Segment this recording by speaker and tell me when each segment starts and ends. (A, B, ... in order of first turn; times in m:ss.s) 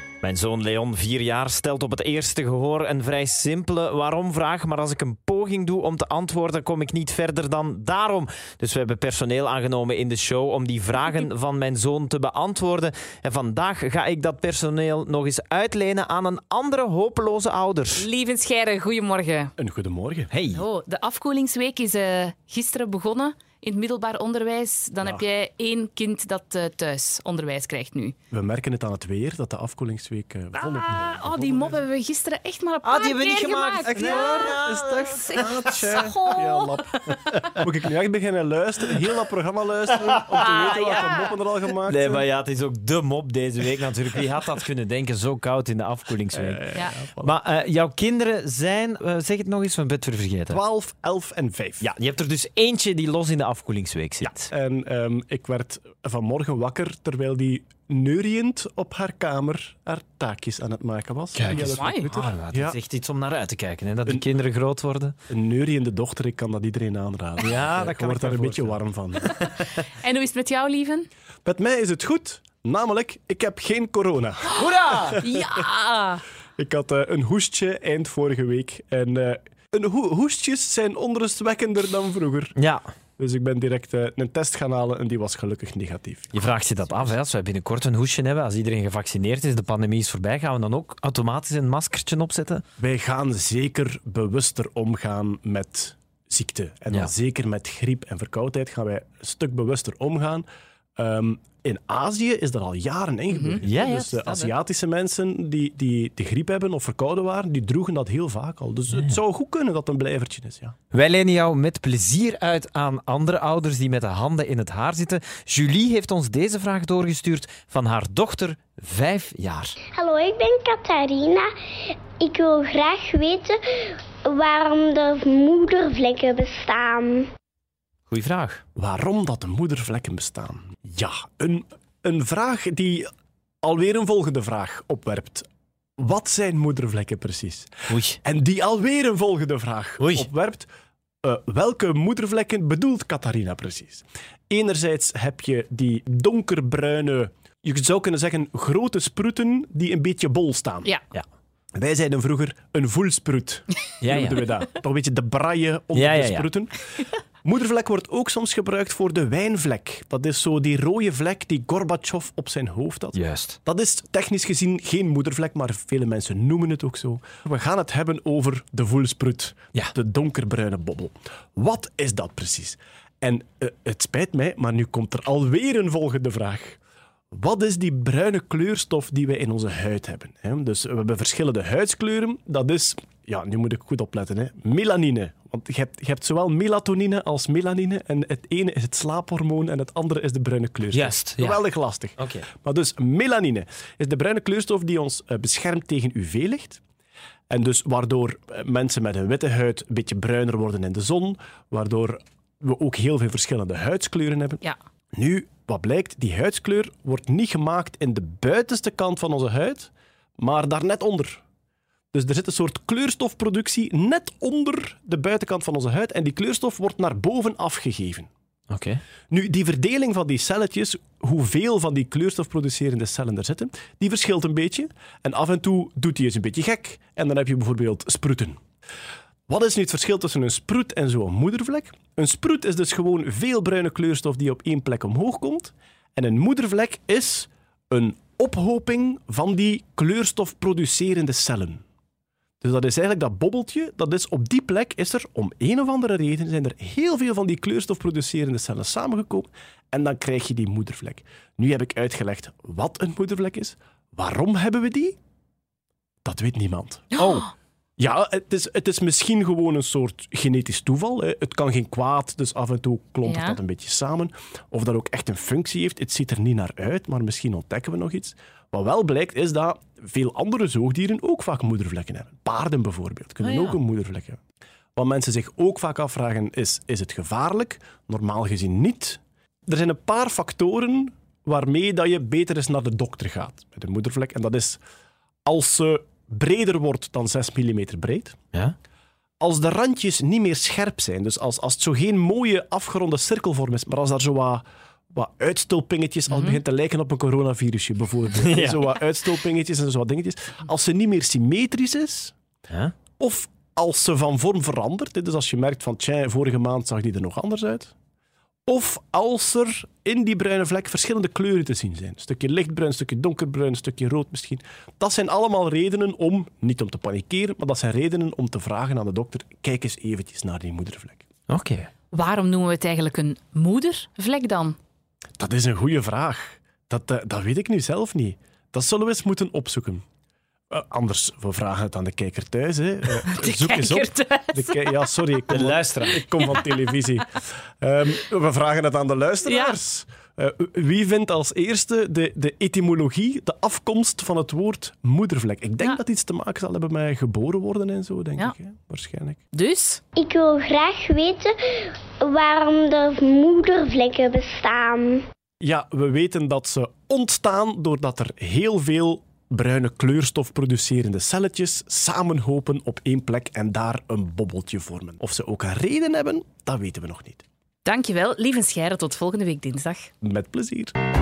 0:00.2-0:18.1 A
0:18.0-0:19.5 B
0:19.6-0:20.3 C
0:20.3-0:20.6 A
0:20.6-0:28.2 B
0:28.3-0:31.8 C
0:30.6-0:36.8 B
0:32.8-0:36.0 A
0:34.2-0:42.3 C
0:40.1-0:41.2 A
0:41.9-0:50.6 A
0:46.3-0:47.3 C
0:50.5-0:51.9 C
0:51.8-0:54.5 A
0:54.2-1:02.8 C
1:01.3-1:05.2 A
1:01.5-1:02.2 B
1:05.3-1:09.5 C
1:07.4-1:09.6 A
1:10.0-1:11.1 B
1:11.4-1:15.4 C
1:14.5-1:15.2 A
1:15.1-1:16.2 B
1:16.6-1:22.6 C
1:22.6-1:22.8 A
1:23.2-1:27.1 C
1:26.3-1:32.6 A
1:32.8-1:40.5 C
1:41.0-1:50.8 C
1:43.3-1:43.6 B
1:43.6-1:44.5 A
1:50.9-1:59.8 A
2:00.0-2:01.5 D
2:02.2-2:03.6 D
2:04.3-2:07.3 D
2:08.1-2:08.6 A
2:08.8-2:13.1 C
2:13.6-2:15.5 C
2:16.0-2:20.7 C
2:17.9-2:18.2 A
2:20.0-2:20.3 A
2:21.2-2:30.9 C
2:31.8-2:36.9 C
2:34.0-2:34.5 A
2:35.9-2:36.5 A
2:37.4-2:56.8 C
2:43.1-2:43.6 A
2:57.3-3:16.8 C
3:10.9-3:11.6 A
3:12.2-3:12.5 A
3:17.5-3:24.6 C
3:25.1-3:31.4 C
3:32.1-3:38.3 C
3:38.7-3:39.0 A
3:39.3-3:48.6 C
3:49.5-4:01.8 C
4:02.6-4:15.2 C
4:16.2-4:17.2 C
4:17.1-4:17.5 B
4:17.2-4:17.5 A
4:18.0-4:34.4 C
4:23.2-4:23.6 B
4:33.4-4:33.8 A
4:35.0-4:44.8 C
4:45.4-4:48.4 C
4:49.4-5:02.4 C
4:56.3-4:56.6 B
4:58.4-4:58.9 A
5:03.2-5:07.9 C
5:08.7-5:21.3 C
5:21.5-5:21.9 A
5:22.1-5:24.8 B
5:25.4-5:30.0 C
5:30.7-5:49.4 C
5:33.2-5:35.2 B
5:35.5-5:36.2 A
5:36.0-5:36.6 B
5:39.4-5:39.8 B
5:49.5-5:50.0 B
5:50.2-5:51.5 D
5:52.2-5:55.2 D
5:55.6-6:07.4 C
6:07.8-6:10.1 B
6:10.2-6:10.9 C